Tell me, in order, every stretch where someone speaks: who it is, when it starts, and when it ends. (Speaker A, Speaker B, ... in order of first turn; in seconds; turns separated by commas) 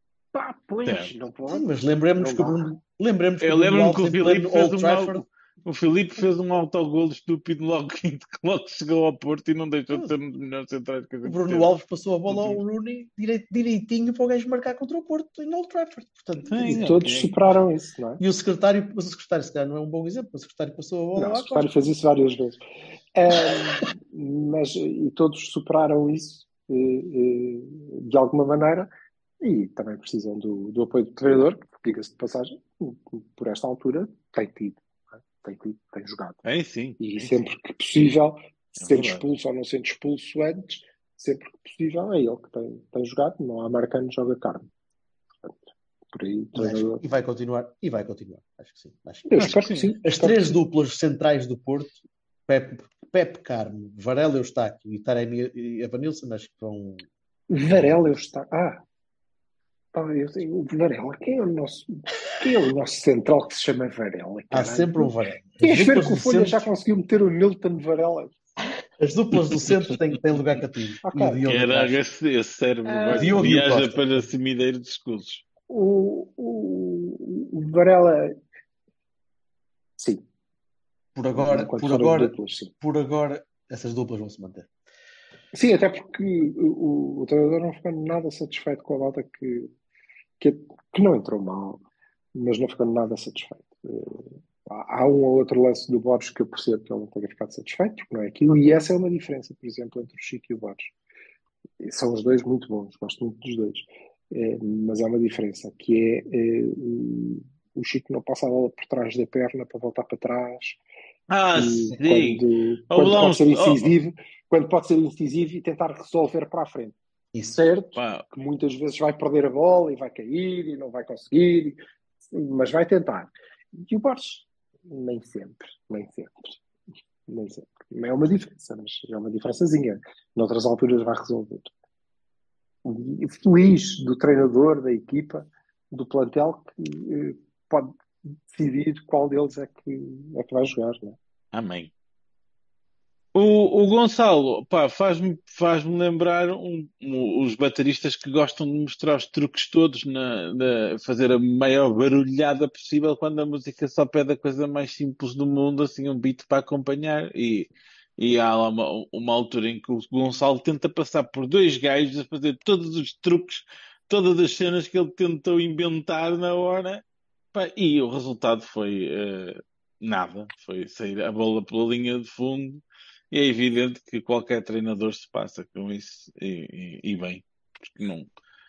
Speaker A: 0.3-2.7, Speaker B: 0.8-1.1, Speaker C: 1.5-5.2, Speaker B: 3.4-11.7, Speaker C: 11.2-16.9, Speaker B: 12.3-12.6, Speaker B: 16.4-17.4, Speaker A: 16.7-18.2, Speaker C: 18.2-21.7, Speaker A: 21.2-22.6, Speaker A: 23.1-28.9, Speaker C: 23.3-23.9, Speaker A: 29.4-36.5, Speaker B: 36.5-37.3, Speaker A: 37.0-44.7, Speaker B: 38.8-39.2, Speaker A: 46.1-47.0, Speaker C: 46.5-57.1, Speaker A: 49.3-50.6, Speaker B: 49.4-49.9, Speaker A: 57.5-58.8, Speaker C: 57.7-58.2, Speaker A: 59.9-68.3, Speaker C: 64.5-66.7, Speaker C: 69.0-72.0, Speaker A: 71.0-71.4, Speaker B: 71.5-75.4, Speaker A: 72.9-73.5, Speaker C: 73.2-74.3, Speaker A: 75.7-78.4, Speaker C: 81.1-84.7, Speaker A: 81.4-82.7, Speaker A: 85.5-89.7, Speaker A: 90.4-91.8, Speaker A: 92.3-100.9, Speaker A: 101.8-110.8, Speaker B: 111.3-113.9, Speaker A: 111.5-117.0, Speaker C: 117.3-117.6, Speaker A: 117.5-121.8, Speaker B: 118.0-118.2, Speaker A: 122.3-126.6, Speaker A: 127.3-131.7, Speaker A: 132.8-141.2, Speaker B: 141.5-141.9, Speaker B: 143.3-167.0, Speaker B: 167.5-178.3